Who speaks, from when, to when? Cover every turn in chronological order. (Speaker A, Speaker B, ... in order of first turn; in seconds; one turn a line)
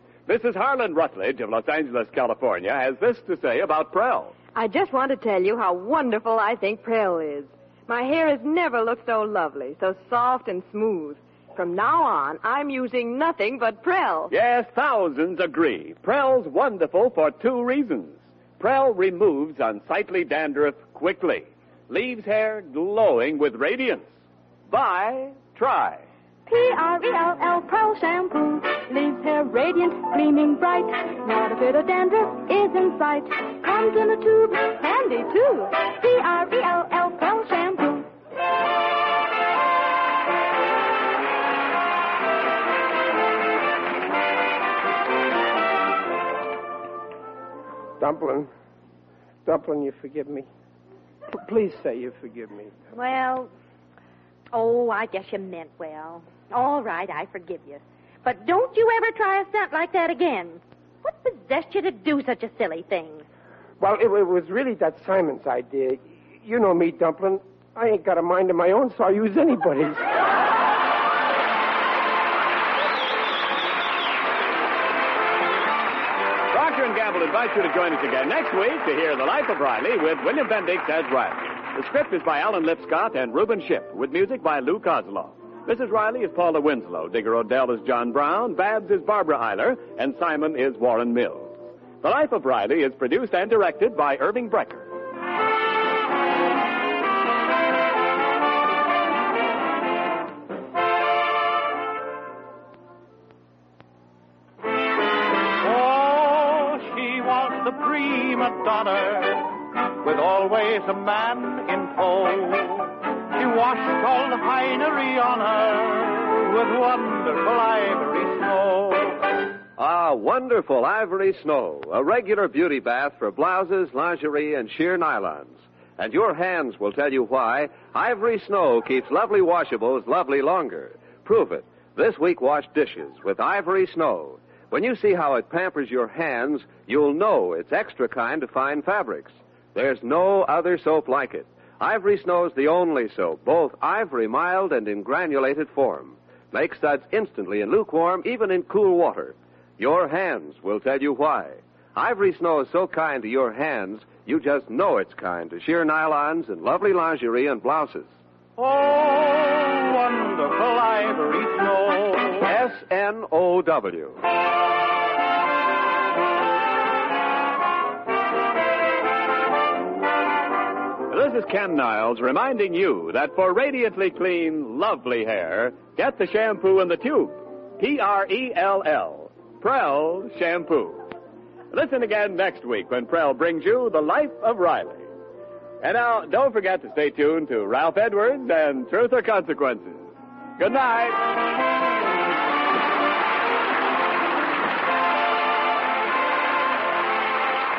Speaker A: 0.3-4.3
Speaker B: 4.5-14.3
Speaker A: 14.3-24.1
Speaker A: 24.7-26.1
Speaker C: 27.9-33.3
Speaker C: 36.9-37.9
Speaker D: 48.0-48.5
Speaker D: 49.5-50.5
Speaker D: 51.3-52.7
Speaker E: 52.9-53.5
Speaker E: 54.5-63.2
Speaker D: 63.8-70.1
Speaker A: 76.5-94.9
Speaker F: 105.6-119.2
Speaker G: 119.8-158.1
Speaker F: 158.6-162.5
Speaker G: 162.4-164.2
Speaker A: 171.1-181.0
Speaker A: 181.7-185.1
Speaker A: 185.8-191.3